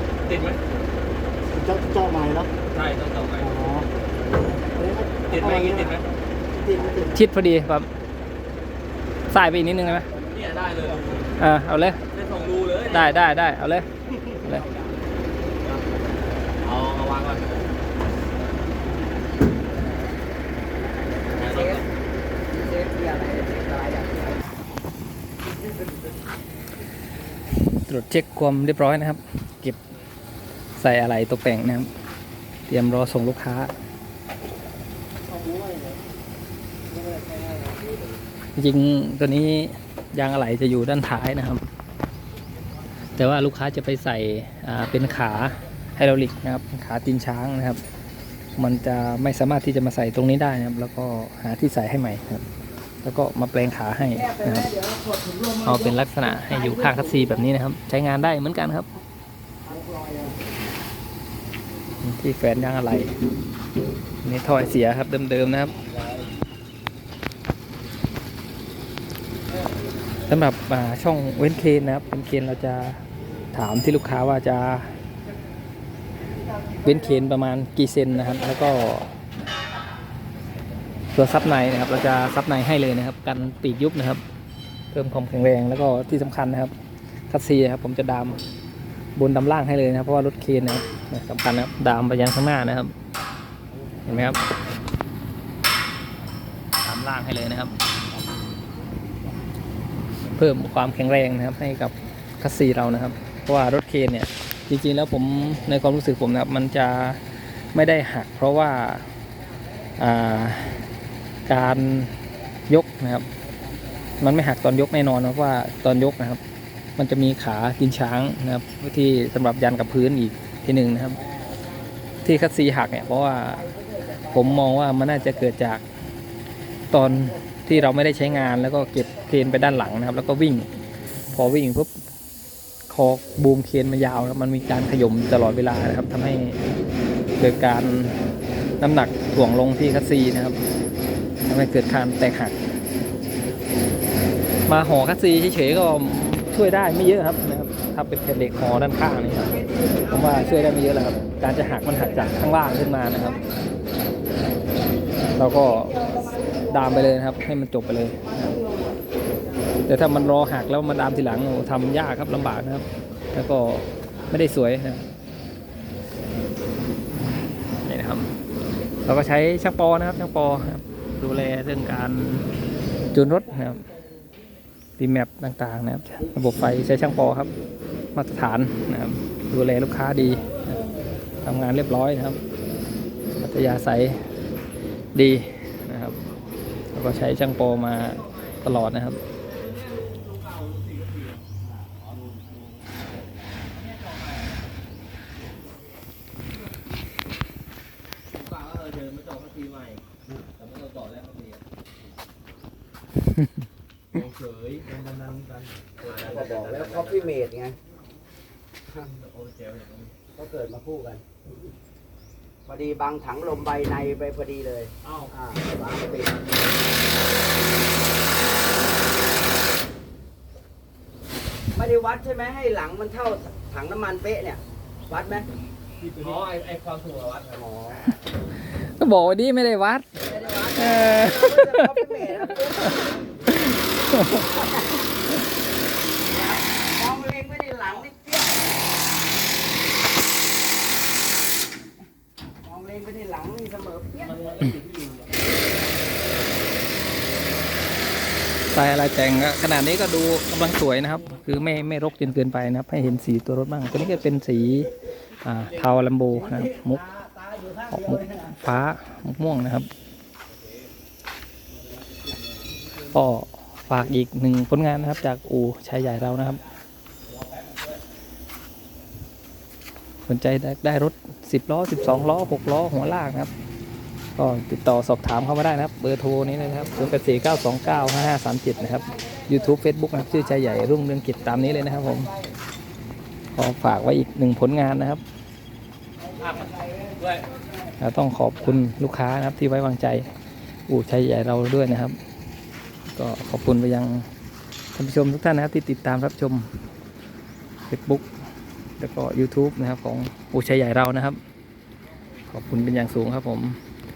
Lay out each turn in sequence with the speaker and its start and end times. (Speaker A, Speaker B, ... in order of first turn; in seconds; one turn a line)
Speaker A: 0.2-0.6
Speaker B: 1.6-2.5
Speaker A: 2.7-3.6
Speaker B: 3.4-3.9
Speaker B: 4.8-5.9
Speaker A: 5.2-6.0
Speaker B: 6.5-7.2
Speaker C: 6.7-7.1
Speaker D: 7.1-7.9
Speaker D: 9.3-10.1
Speaker C: 10.2-11.2
Speaker A: 10.3-11.3
Speaker D: 11.4-12.0
Speaker A: 12.1-13.1
Speaker D: 12.8-13.9
Speaker C: 14.4-15.1
Speaker A: 16.6-17.6
Speaker C: 20.7-21.8
Speaker A: 21.3-21.8
Speaker C: 22.5-24.6
Speaker D: 27.5-29.8
Speaker D: 30.8-31.9
Speaker D: 32.7-33.7
Speaker A: 35.3-35.8
Speaker D: 38.5-41.6
Speaker D: 43.1-47.8
Speaker D: 48.5-52.4
Speaker D: 53.0-54.7
Speaker C: 54.1-55.7
Speaker D: 55.6-58.9
Speaker C: 56.7-57.2
Speaker C: 59.7-60.3
Speaker D: 62.0-63.1
Speaker D: 64.2-65.8
Speaker C: 66.0-66.2
Speaker D: 70.3-73.0
Speaker D: 73.5-74.9
Speaker D: 76.8-79.1
Speaker D: 81.1-84.2
Speaker D: 84.9-86.7
Speaker D: 87.3-88.4
Speaker D: 89.2-92.9
Speaker D: 94.0-94.4
Speaker D: 96.8-97.7
Speaker D: 100.3-107.2
Speaker D: 107.7-109.1
Speaker D: 110.0-110.8
Speaker D: 111.5-112.2
Speaker D: 112.7-113.3
Speaker C: 113.5-114.3
Speaker D: 114.2-116.4
Speaker D: 117.0-121.2
Speaker C: 121.1-121.6
Speaker D: 122.2-123.7
Speaker C: 123.6-124.3
Speaker D: 124.3-125.8
Speaker D: 126.9-130.7
Speaker D: 131.3-131.9
Speaker D: 132.9-136.6
Speaker D: 137.4-138.2
Speaker D: 138.8-140.6
Speaker D: 141.4-142.5
Speaker D: 144.7-153.4
Speaker C: 149.5-150.1
Speaker D: 155.3-158.6
Speaker D: 159.9-165.0
Speaker D: 167.8-168.3
Speaker D: 169.0-172.5
Speaker D: 173.1-173.8
Speaker D: 175.0-177.5
Speaker D: 178.1-180.8
Speaker D: 181.4-182.4
Speaker D: 183.4-184.2
Speaker D: 185.1-186.2
Speaker D: 186.9-189.2
Speaker A: 189.9-191.4
Speaker A: 198.3-200.0
Speaker A: 200.6-201.6
Speaker A: 204.1-205.5
Speaker A: 206.0-207.3
Speaker C: 206.0-207.8
Speaker C: 208.9-209.2
Speaker A: 209.2-210.1
Speaker C: 210.3-211.2
Speaker C: 212.7-216.4
Speaker A: 215.0-215.3
Speaker C: 221.7-225.5
Speaker A: 226.0-227.6
Speaker C: 227.5-228.0
Speaker D: 228.8-230.1
Speaker C: 230.2-233.2
Speaker D: 230.8-232.0
Speaker D: 233.5-234.4
Speaker C: 234.3-234.9
Speaker C: 236.3-238.8
Speaker C: 242.6-244.7
Speaker A: 244.3-245.3
Speaker D: 248.7-257.0
Speaker C: 257.1-257.9
Speaker D: 257.9-259.9
Speaker A: 261.8-262.6
Speaker D: 263.1-266.6
Speaker D: 270.3-273.5
Speaker D: 274.4-282.3
Speaker D: 283.5-285.2
Speaker C: 286.3-287.2
Speaker A: 286.4-286.7
Speaker D: 288.0-290.3
Speaker D: 290.9-292.2
Speaker D: 293.1-294.3
Speaker D: 294.9-296.7
Speaker D: 297.9-298.2
Speaker D: 299.0-301.4
Speaker D: 302.5-303.8